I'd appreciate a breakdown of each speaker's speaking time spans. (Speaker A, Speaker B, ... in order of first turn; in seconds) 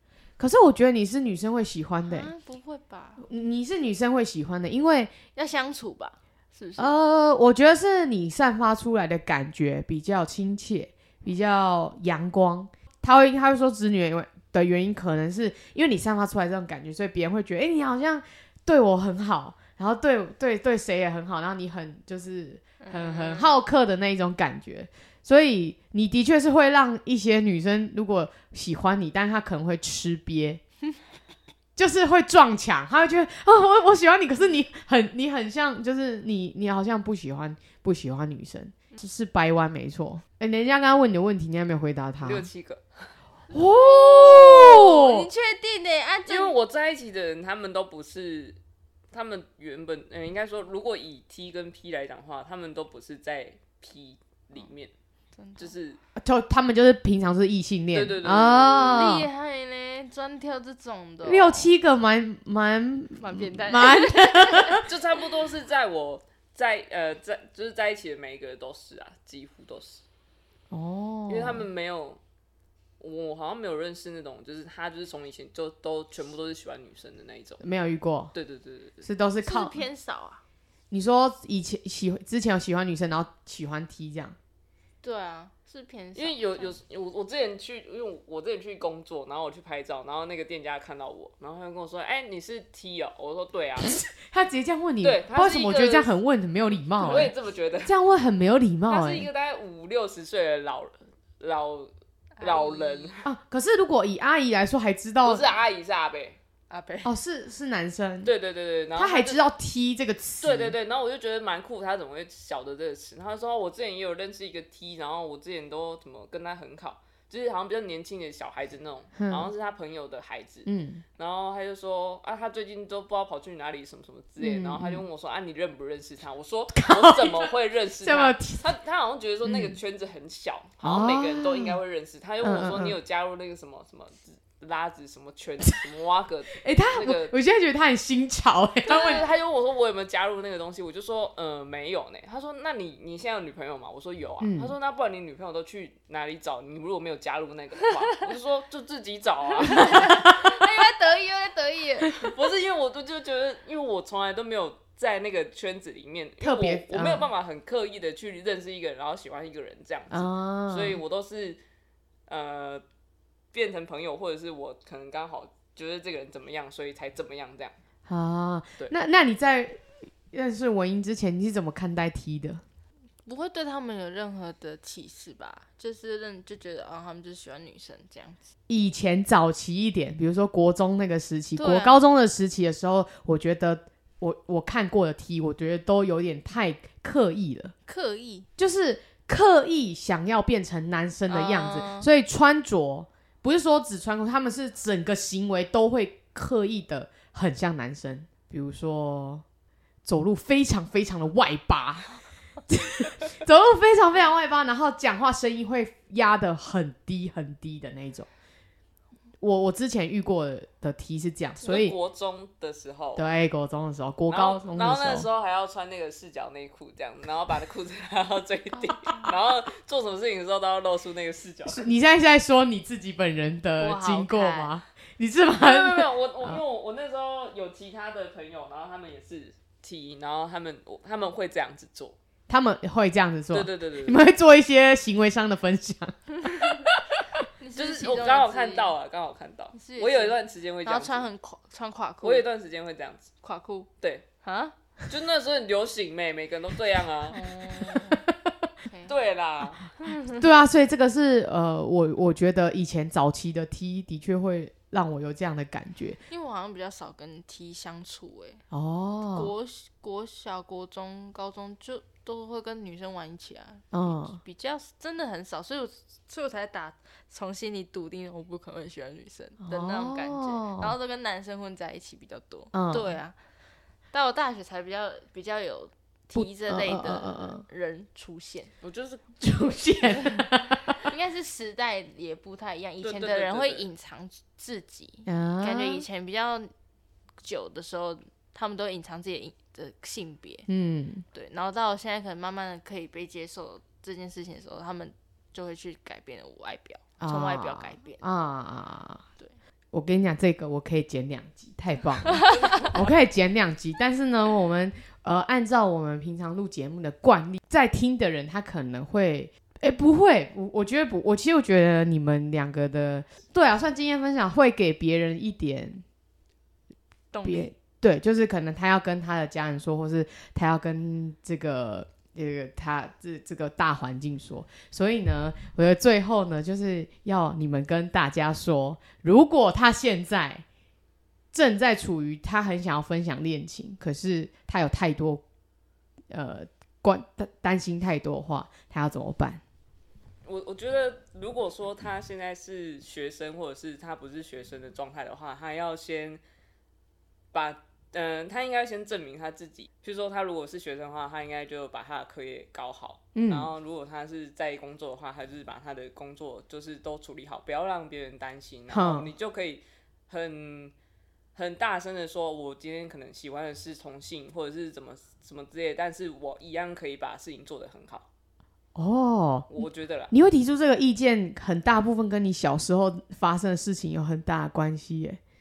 Speaker A: 0.4-2.3, 3.2-5.1, 6.8-30.6, 31.8-42.5, 43.5-45.3, 56.2-59.3, 61.2-64.9, 70.7-71.7, 77.6-78.3, 79.0-79.8, 80.9-84.4, 94.1-99.3, 103.2-105.5, 107.0-108.3, 108.9-110.8, 119.2-119.5, 120.7-121.0, 124.4-125.0, 126.8-128.7, 129.4-129.8, 130.8-131.8, 132.4-133.0, 136.6-139.3, 144.4-144.8, 149.8-150.1, 156.4-157.3, 160.1-161.0, 168.1-172.6, 178.7-187.7, 188.6-199.4, 200.1-202.1, 202.7-208.3, 209.4-211.9, 213.2-215.3, 221.7-226.6, 232.5-237.0, 250.3-256.2, 258.7-259.5, 263.9-264.4, 269.6-270.9, 272.7-273.1, 276.3-277.6, 279.4-280.9, 285.3-286.1, 290.7-291.2, 297.2-299.2, 299.9-316.0, 317.4-330.6, 331.5-335.4, 336.3-339.6, 353.4-353.7, 358.9-359.3, 368.9-375.4
Speaker B: 2.1-3.2, 5.3-6.9, 22.8-23.6, 43.5-46.5, 55.4-55.7, 58.9-61.7, 63.2-64.8, 79.4-80.4, 85.0-86.8, 102.4-103.2, 106.7-107.1, 149.7-152.1, 173.2-178.4, 181.6-181.9, 187.9-188.5, 191.3-192.1, 218.8-219.3, 223.8-224.7, 237.6-238.9, 239.8-242.4, 243.4-243.9, 244.4-244.8, 247.3-248.2, 248.9-249.1, 250.0-250.4, 256.3-258.6, 259.3-273.4, 274.1-278.7, 281.0-286.7, 287.4-290.7, 291.3-298.2, 317.3-317.7
Speaker C: 42.2-43.1, 46.3-48.6, 49.1-54.9, 55.6-56.0, 57.9-59.2, 64.8-70.0, 71.3-72.2, 73.0-77.6, 78.3-79.0, 86.2-94.0, 95.0-96.1, 97.0-97.9, 98.9-103.3, 105.2-106.4, 108.2-109.4, 110.4-137.3, 138.8-150.1, 152.2-161.6, 162.3-162.8, 163.5-167.8, 211.6-213.2, 214.3-221.9, 225.5-232.2, 233.5-234.2, 237.8-241.3, 242.2-243.3, 245.1-247.4, 249.1-249.9, 278.8-279.3, 283.0-283.9, 302.5-303.1, 340.4-346.4, 347.5-360.9, 361.6-368.3, 369.7-370.3